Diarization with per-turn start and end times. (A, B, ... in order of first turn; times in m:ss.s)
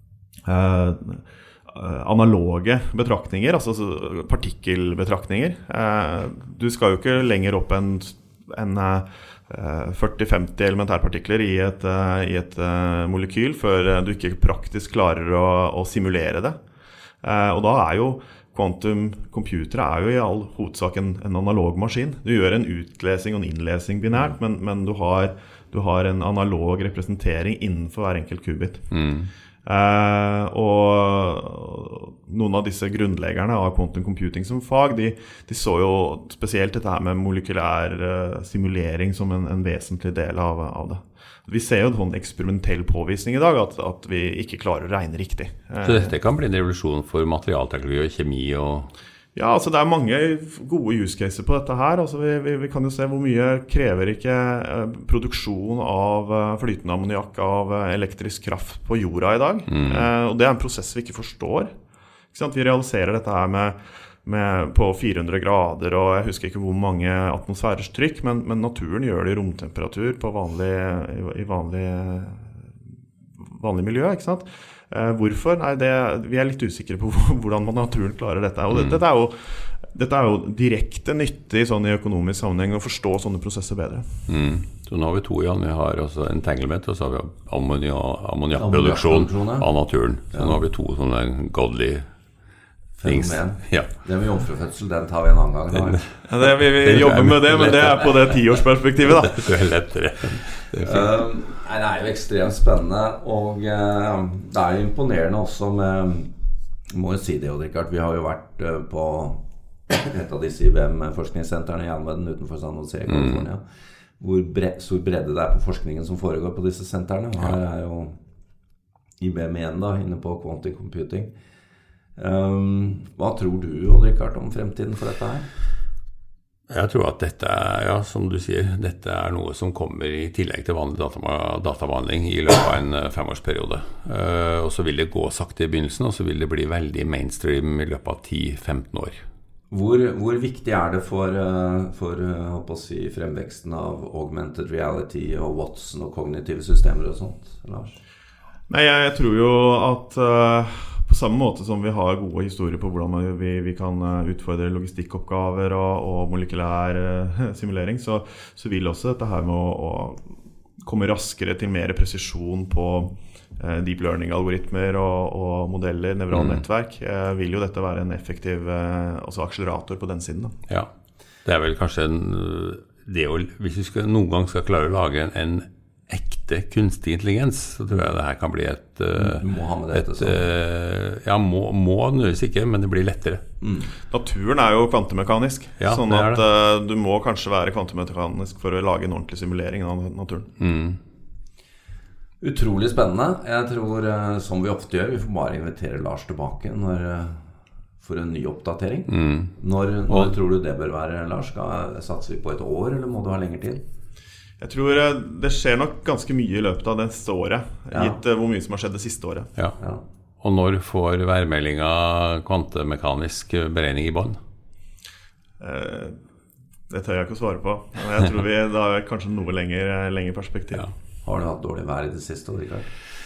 0:00.4-0:16.6 A
0:17.2-0:28.8 A
0:28.9-0:29.3 B
0:29.6-0:46.1 A
0:45.8-0:48.9 B
0:49.3-1:01.7 A
0:59.7-1:00.1 B
1:02.3-1:12.5 A
1:13.4-1:24.2 A
1:18.7-1:19.0 B
1:24.3-1:32.1 B
1:28.6-1:29.7 C
1:30.3-1:30.6 C
1:33.0-1:36.0 C
1:33.0-1:33.9 B
1:35.7-1:38.0 B
1:36.2-1:39.5 A
1:39.2-1:41.1 B
1:40.8-1:46.3 C
1:46.9-1:53.6 C
1:53.1-1:53.5 B
1:54.2-1:58.2 C
1:59.2-2:01.3 C
2:02.2-2:05.5 C
2:06.7-2:19.2 B
2:19.7-2:28.0 C
2:28.7-2:40.2 A
2:40.8-2:50.5 A
2:46.3-2:46.6 B
2:51.4-3:03.4 B
2:59.2-3:00.4 C
3:03.6-3:03.9 C
3:04.1-3:10.5 A
3:05.8-3:06.4 B
3:10.6-3:11.0 B
3:12.4-3:17.4 C
3:18.0-3:23.8 C
3:19.1-3:19.5 B
3:20.1-3:20.4 B
3:24.6-3:29.5 A
3:27.9-3:28.2 C
3:30.4-3:34.4 B
3:35.6-3:36.2 A
3:36.9-3:40.9 A
3:41.2-3:42.9 C